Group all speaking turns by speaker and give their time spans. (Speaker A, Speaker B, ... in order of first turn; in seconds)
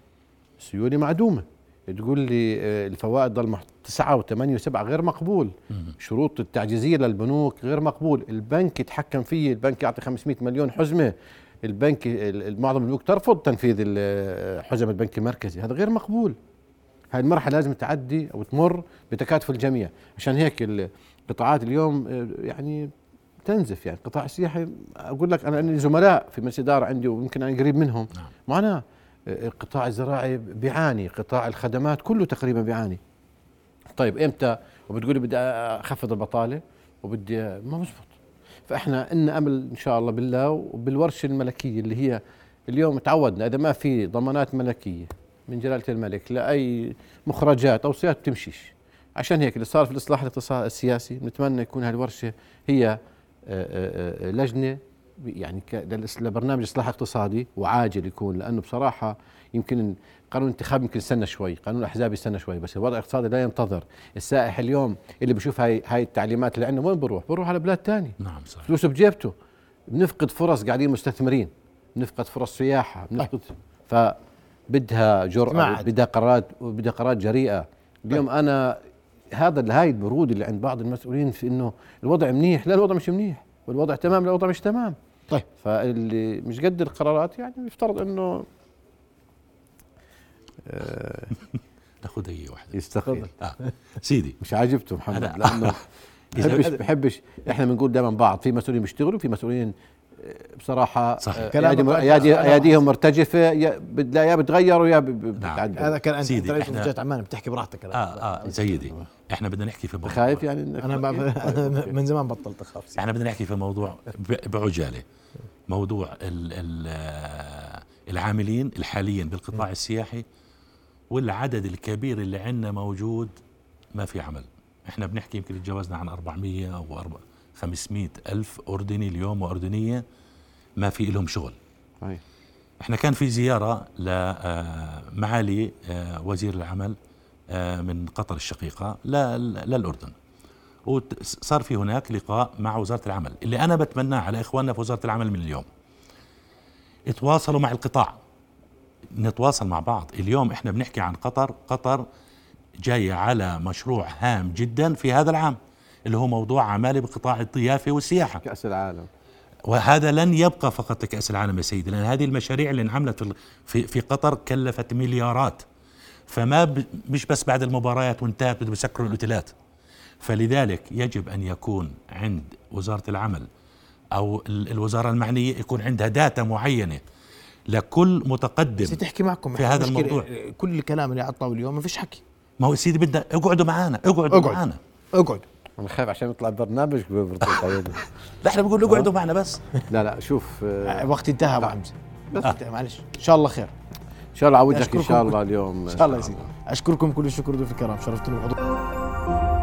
Speaker A: 0.6-16.4, 17.1-22.9, 23.4-33.0, 34.0-38.1, 38.7-69.3, 69.9-74.2, 74.7-85.0, 85.6-88.5, 90.7-91.3, 92.7-93.3, 94.4-105.9, 110.0-111.9, 158.4-159.1, 185.8-188.0, 189.9-191.7, 194.3-196.4
Speaker B: 68.2-68.7, 92.0-94.4, 95.1-95.8, 96.3-96.7, 101.2-101.5, 105.4-106.9, 107.9-110.4, 113.0-115.0, 115.7-120.2, 121.1-123.4, 123.9-130.0, 130.8-131.6, 132.8-137.0, 137.5-140.1, 140.9-145.7, 147.1-148.2, 149.2-152.0, 152.8-158.4, 159.7-165.6, 166.3-169.5, 170.2-173.5, 174.1-177.0, 177.7-179.0, 179.6-180.2, 182.6-184.8, 188.4-189.6
Speaker C: 75.5-75.9, 101.5-102.8, 105.8-108.7, 110.8-113.0, 178.8-182.2, 184.3-184.6, 185.1-185.4, 190.9-193.7, 194.7-195.3, 195.9-198.6